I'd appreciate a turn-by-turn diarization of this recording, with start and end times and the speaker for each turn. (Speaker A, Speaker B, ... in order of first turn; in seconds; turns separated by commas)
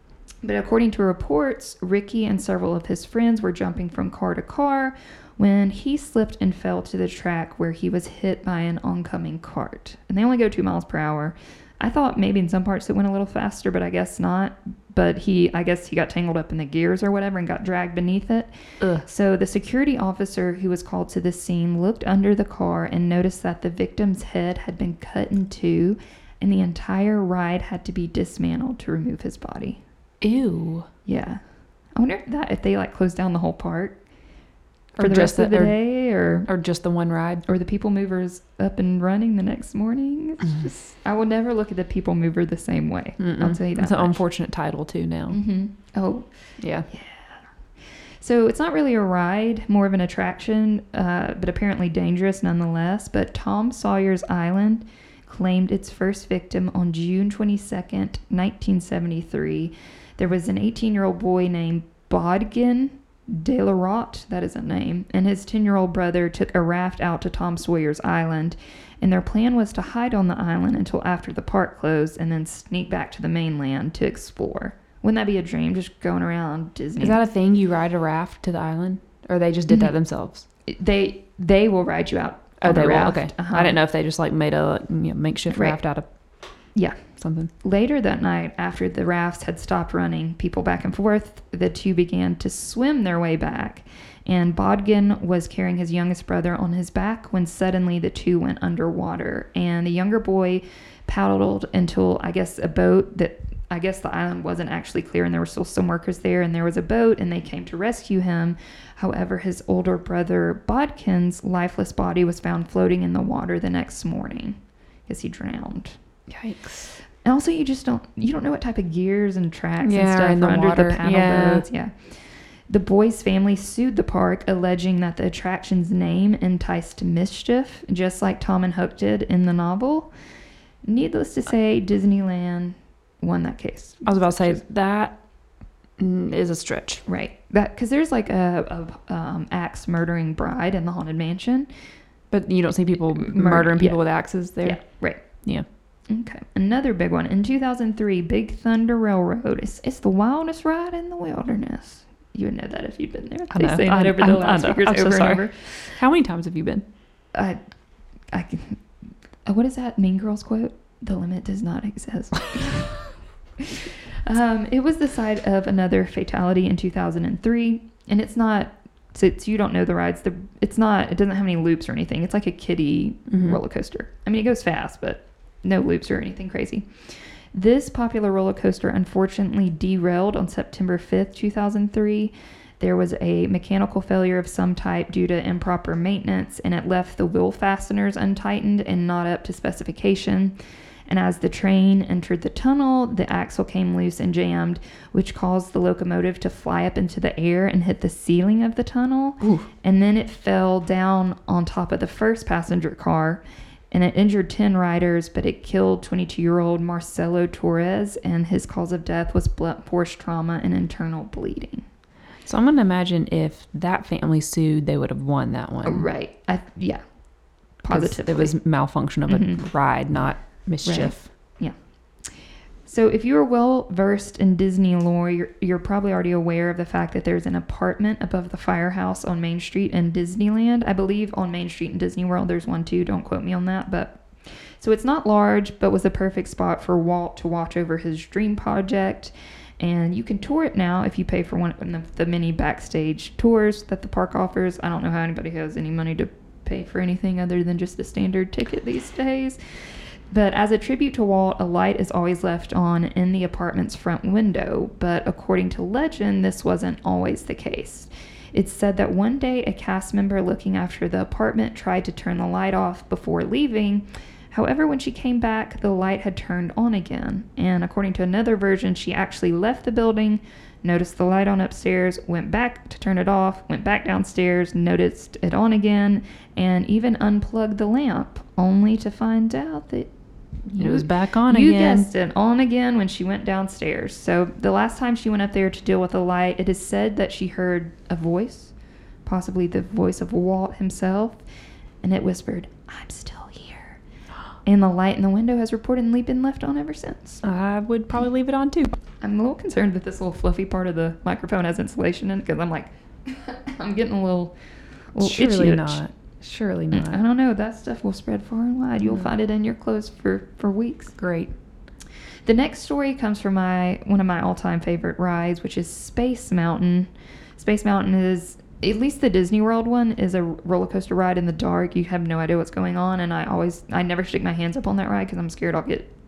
Speaker A: 0.4-29.8, Speaker B: 18.8-19.1, Speaker B: 30.2-30.9, Speaker A: 31.1-31.4, Speaker A: 32.0-34.0, Speaker B: 35.0-35.8, Speaker A: 35.0-36.5, Speaker B: 36.5-37.4, Speaker A: 37.5-44.2, Speaker B: 43.2-45.4, Speaker A: 45.3-46.3, Speaker B: 46.6-46.9, Speaker A: 46.9-47.5, Speaker A: 48.2-77.2, Speaker B: 77.0-80.5, Speaker A: 80.7-83.8, Speaker B: 82.6-86.1, Speaker A: 85.5-85.8, Speaker A: 86.8-87.0, Speaker B: 87.2-87.5, Speaker A: 87.6-116.0, Speaker B: 116.3-116.9, Speaker A: 117.2-130.1, Speaker B: 119.8-121.7, Speaker A: 130.9-134.6, Speaker B: 134.1-135.2, Speaker B: 136.0-137.0, Speaker A: 137.1-141.7, Speaker B: 142.3-145.7, Speaker A: 143.1-144.0, Speaker A: 144.6-145.2, Speaker A: 146.1-156.0, Speaker B: 153.5-156.9, Speaker A: 158.3-158.8, Speaker A: 159.4-190.6, Speaker B: 173.3-173.6, Speaker A: 191.1-211.9, Speaker B: 199.4-199.7, Speaker B: 212.4-216.1, Speaker A: 215.8-217.0, Speaker A: 217.8-218.6, Speaker B: 217.9-221.3, Speaker A: 219.3-219.6, Speaker A: 220.8-221.7, Speaker A: 222.9-234.2, Speaker A: 234.8-249.6, Speaker A: 250.3-280.1, Speaker A: 280.7-288.7, Speaker B: 280.8-282.1, Speaker A: 289.2-291.4, Speaker A: 292.0-294.0, Speaker A: 294.6-297.4, Speaker B: 297.4-298.9, Speaker A: 299.2-304.6, Speaker A: 305.1-306.0, Speaker B: 305.2-307.2, Speaker A: 306.9-311.2, Speaker B: 311.2-311.5, Speaker A: 312.5-326.1